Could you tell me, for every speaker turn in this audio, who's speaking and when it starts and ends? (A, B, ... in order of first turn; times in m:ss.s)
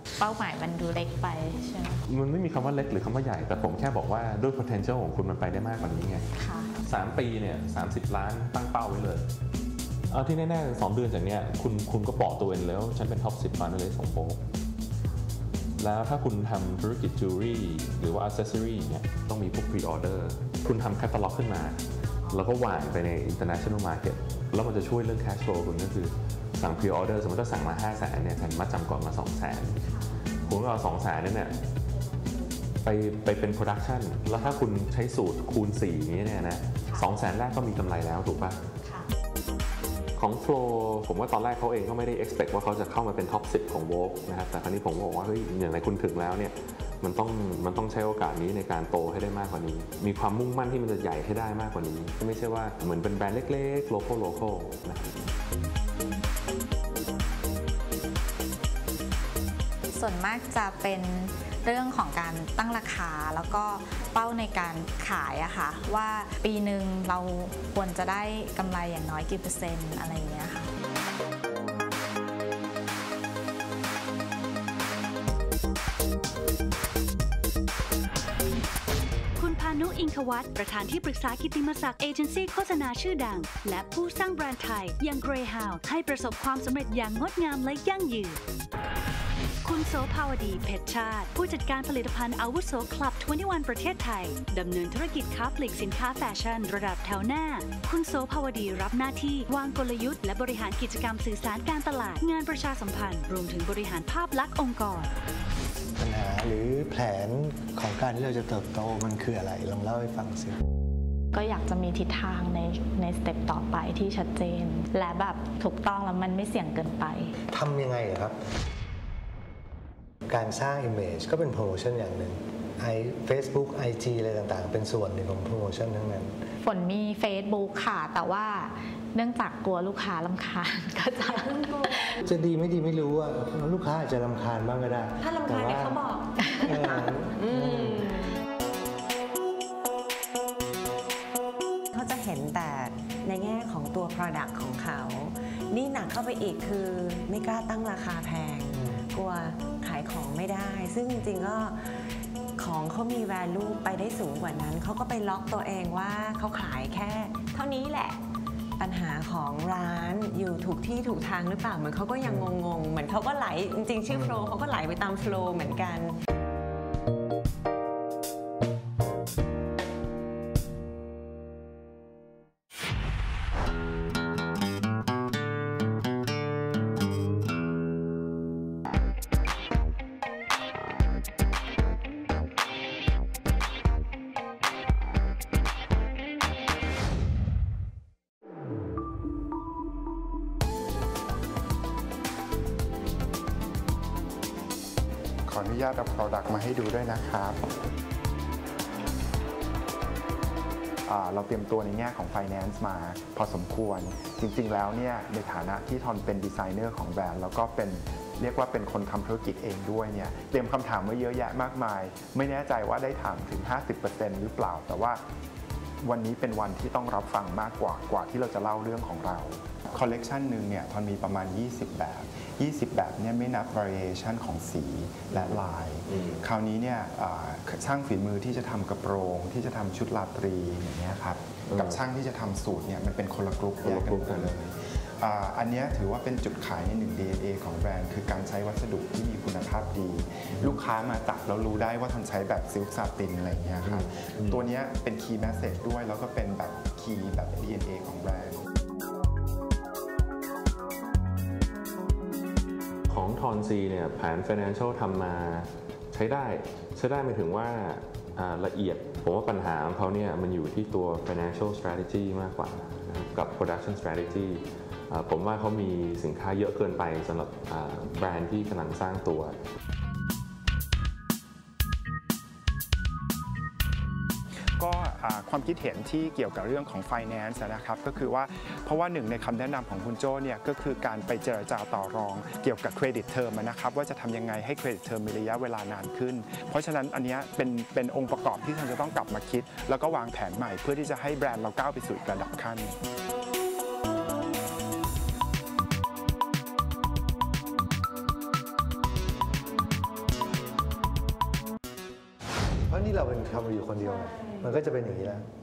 0:00.2-0:02.0 A
0:02.1-0:06.3 B
0:06.3-0:06.7 A
0:06.8-0:09.3 B
0:10.1-0:14.4 B
0:15.8-0:29.8 B
0:30.4-0:31.6 B
0:32.8-0:38.7 B
0:40.2-0:55.1 B
0:59.9-1:10.7 A
1:19.4-1:28.4 C
1:29.6-1:45.1 C
1:46.0-1:50.6 D
1:51.3-1:57.3 A
1:57.5-1:58.4 D
2:00.3-2:06.4 D
2:06.6-2:12.2 A
2:12.2-2:16.0 D
2:15.2-2:18.3 E
2:16.6-2:18.1 D
2:21.9-2:38.2 E
2:38.8-2:46.2 E
3:15.5-3:17.6 F
3:21.1-3:35.2 F
3:36.0-4:08.6 F
3:51.7-3:52.0 B
3:53.8-3:54.5 B
4:03.8-4:04.7 B
4:13.1-4:29.6 B
4:34.8-4:53.0 F
5:02.9-5:05.5 D